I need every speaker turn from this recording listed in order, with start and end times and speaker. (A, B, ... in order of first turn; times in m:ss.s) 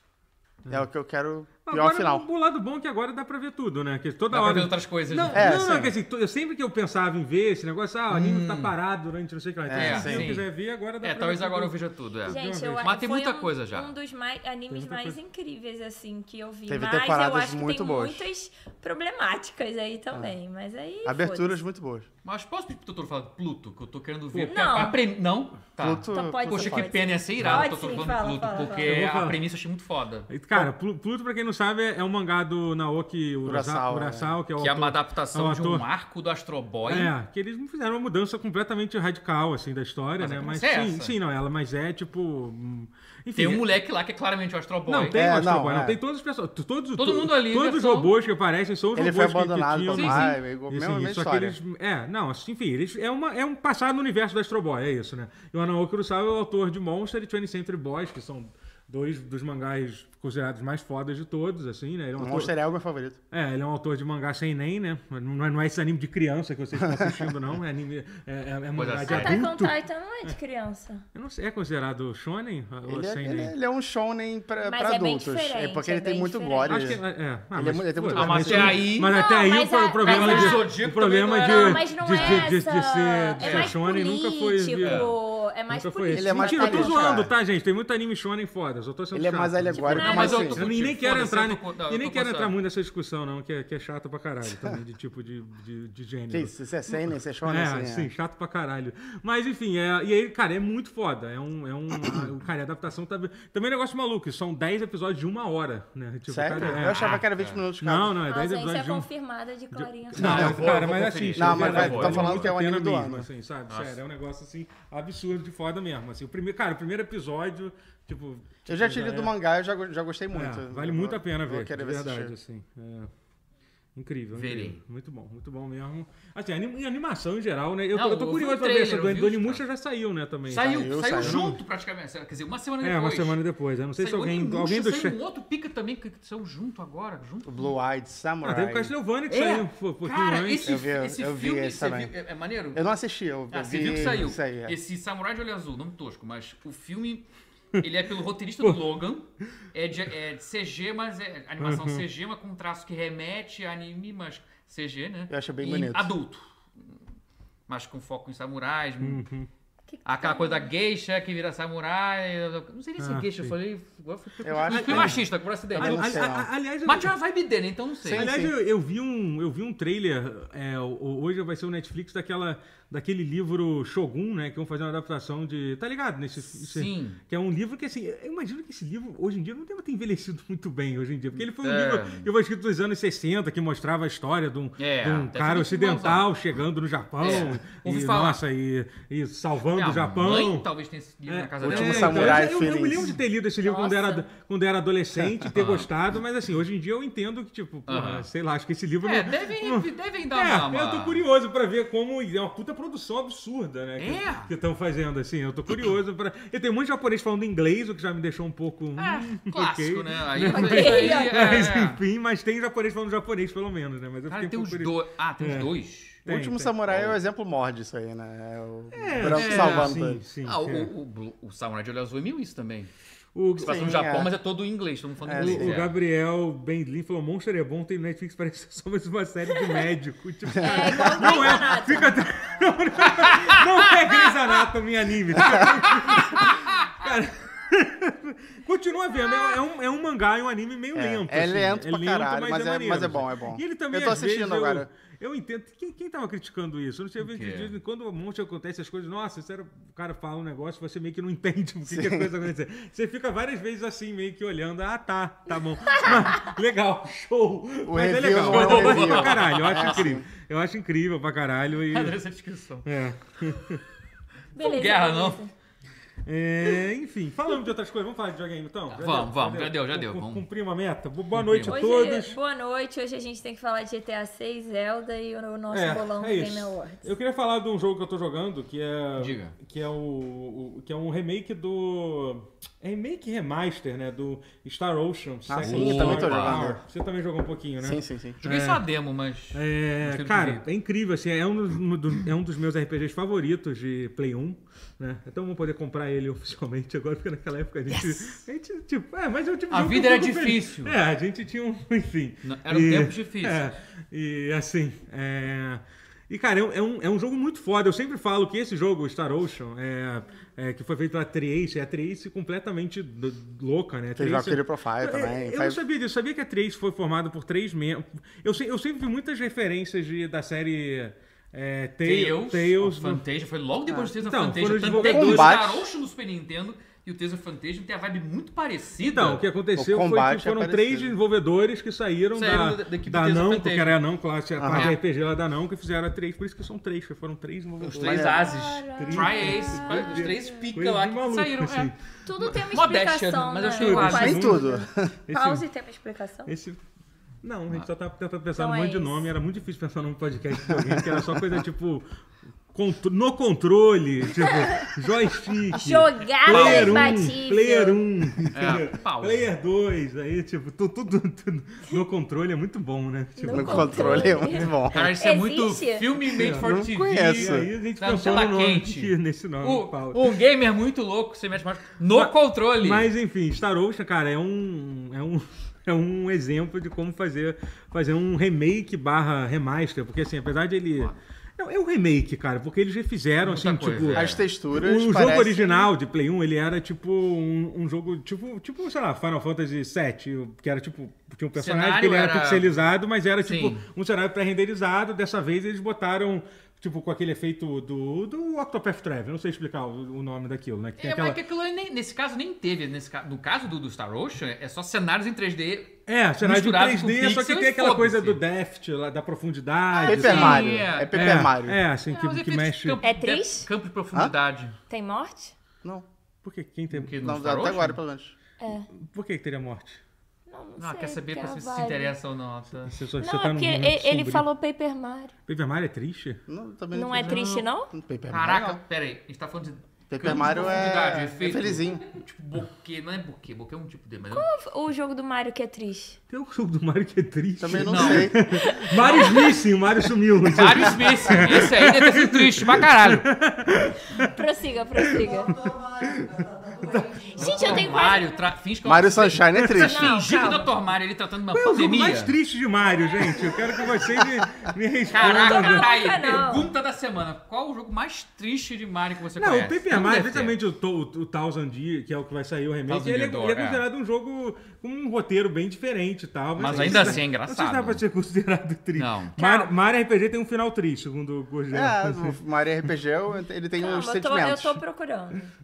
0:00.7-0:02.2 A
0:01.6-0:13.0 B
0:04.3-0:05.7 C
0:05.3-0:05.9 A
0:08.1-0:08.7 C
0:09.7-0:10.3 A
0:09.7-0:10.5 C
0:11.0-0:13.9 C
0:12.2-0:21.6 D
0:14.7-0:15.2 B
0:16.7-0:18.3 A
0:21.0-0:22.1 A
0:22.2-0:30.6 C
0:24.3-0:24.9 B
0:24.4-0:25.0 D
0:25.8-0:27.1 A
0:26.1-0:28.9 D
0:27.4-0:27.9 B
0:28.8-0:29.4 B
0:30.3-0:35.8 B
0:33.4-0:34.3 A
0:34.6-0:37.1 C
0:36.8-0:43.7 B
0:40.2-0:41.1 C
0:43.3-0:45.2 C
0:44.9-1:02.5 B
0:45.1-0:46.0 A
0:47.0-0:48.1 C
0:48.9-0:51.6 A
0:49.9-0:50.4 C
1:02.2-1:03.2 A
1:03.3-1:10.4 B
1:06.8-1:07.3 A
1:08.7-1:09.4 C
1:09.1-1:11.0 D
1:11.1-1:13.5 B
1:12.9-1:17.0 A
1:14.6-1:16.9 D
1:16.7-1:25.1 B
1:17.5-1:18.9 A
1:18.1-1:19.1 C
1:19.0-1:20.7 D
1:20.0-1:22.5 C
1:21.3-1:27.1 D
1:23.4-1:23.7 C
1:24.8-1:25.1 C
1:25.7-1:47.2 B
1:26.1-1:27.3 A
1:29.1-1:30.6 A
1:29.7-1:32.5 C
1:29.8-1:30.6 D
1:34.5-1:34.8 A
1:36.3-1:38.1 A
1:46.3-1:48.2 A
1:46.6-1:47.6 C
1:47.8-1:49.1 B
1:48.3-1:50.5 D
1:49.7-1:59.3 B
1:50.2-1:52.5 C
1:50.2-1:53.3 A
1:53.7-1:54.0 C
1:58.7-2:02.3 A
2:00.3-2:03.1 B
2:03.9-2:11.6 B
2:04.3-2:04.8 C
2:07.9-2:09.6 C
2:10.5-2:13.4 C
2:10.5-2:11.4 A
2:12.8-2:15.2 B
2:14.0-2:17.7 C
2:17.4-2:18.9 A
2:18.4-2:20.7 B
2:19.3-2:22.8 C
2:20.6-2:22.1 A
2:22.7-2:24.8 A
2:23.5-2:27.2 C
2:23.9-2:24.3 B
2:27.8-2:37.0 C
2:31.6-2:32.0 B
2:35.3-2:36.1 A
2:37.7-2:39.2 C
2:39.0-2:39.5 B
2:39.9-2:40.7 D
2:40.0-2:48.3 C
2:43.0-2:43.5 B
2:44.4-2:46.5 A
2:44.7-2:47.1 B
2:48.0-2:48.5 A
2:48.1-3:10.7 B
2:56.5-2:57.2 C
3:01.4-3:02.3 C
3:04.8-3:06.3 C
3:07.2-3:08.4 C
3:09.7-3:13.0 C
3:11.3-3:35.7 B
3:11.6-3:13.1 A
3:13.6-3:14.2 D
3:15.5-3:15.9 C
3:17.9-3:18.3 C
3:19.0-3:21.2 C
3:24.0-3:24.5 C
3:29.0-3:32.0 C
3:30.5-3:31.6 D
3:34.3-3:36.2 C
3:36.2-3:37.1 B
3:36.2-3:40.2 A
3:38.9-3:40.9 B
3:39.2-3:42.9 C
3:43.3-3:44.0 B
3:43.6-3:45.9 C
3:43.6-3:44.3 A
3:45.2-3:45.8 A
3:45.3-4:22.2 B
3:50.6-3:52.2 D
3:50.6-3:51.3 A
3:53.1-3:54.0 C
3:55.4-3:55.6 A
3:55.5-3:56.8 C
4:00.9-4:04.9 A
4:07.2-4:07.7 C
4:11.8-4:12.3 A
4:17.8-4:20.2 A
4:18.4-4:20.1 C
4:21.9-4:22.9 C
4:22.8-4:23.8 B
4:24.5-4:25.5 D
4:24.6-4:25.4 C
4:26.2-4:32.4 B
4:28.9-4:30.4 C
4:31.3-4:31.8 C
4:31.7-4:37.1 D
4:35.7-4:48.9 B
4:39.2-4:39.5 C
4:45.5-4:46.8 A
4:45.6-4:46.7 C
4:47.8-4:48.4 A
4:48.4-4:50.6 C
4:49.5-5:23.2 B
4:57.9-4:58.3 C
4:59.7-5:01.0 C
5:02.4-5:03.8 C
5:14.2-5:15.8 A
5:22.0-5:29.4 C
5:24.2-5:25.6 B
5:24.9-5:25.9 A
5:29.0-5:42.6 B
5:29.8-5:31.1 A
5:32.3-5:34.0 C
5:34.6-5:34.9 A
5:34.7-5:35.0 C
5:37.8-5:41.9 C
5:38.0-5:38.4 A
5:38.4-5:40.7 D
5:42.2-5:46.5 D
5:42.5-5:44.5 C
5:43.8-5:45.6 B
5:44.0-5:45.1 A
5:46.4-5:46.8 B
5:47.4-5:52.0 B
5:48.5-5:49.2 D
5:50.7-5:51.5 A
5:52.7-6:04.7 B
5:54.4-5:54.9 D
5:55.7-5:58.0 D
5:56.5-5:57.1 C
5:58.5-5:59.5 C
6:03.4-6:06.1 D
6:03.5-6:05.1 A
6:04.8-6:13.1 C
6:06.3-6:07.7 A
6:06.3-6:10.3 B
6:12.1-6:41.4 B
6:23.4-6:24.4 C
6:24.1-6:25.9 A
6:31.6-6:32.7 C
6:33.4-6:33.8 C
6:41.0-6:48.4 C
6:46.1-6:53.0 B
6:49.9-6:50.7 D
6:50.0-6:51.8 A
6:50.0-6:51.5 C
6:52.1-6:54.8 C
6:53.0-6:53.7 D
6:54.9-6:55.5 D
6:56.4-6:57.1 B
6:56.9-6:58.0 C
6:57.2-6:58.3 A
6:58.6-6:58.9 D
6:58.9-7:00.0 B
7:00.5-7:02.1 D
7:00.8-7:03.0 C
7:02.8-7:04.5 B
7:03.2-7:05.3 D
7:05.5-7:06.4 B
7:06.5-7:08.8 A
7:06.9-7:07.9 D
7:07.2-7:07.6 C
7:08.3-7:14.5 C
7:10.1-7:12.0 A
7:14.3-7:16.2 D
7:16.3-7:24.3 B
7:17.6-7:18.4 A
7:17.8-7:18.4 C
7:18.5-7:19.5 D
7:18.9-7:19.6 C
7:20.4-7:23.3 C
7:24.1-7:25.6 D
7:25.0-7:27.2 B
7:27.3-7:28.3 D
7:27.4-7:32.3 C
7:28.8-7:30.1 A
7:29.7-7:30.7 D
7:31.5-7:35.9 B
7:35.1-7:40.6 C
7:35.2-7:36.7 D
7:39.4-7:52.4 B
7:42.9-7:43.8 C
7:46.6-7:48.0 C
7:46.7-7:47.0 A
7:48.9-7:49.4 C
7:49.4-7:49.7 D
7:51.7-7:54.8 A
7:53.8-7:55.5 D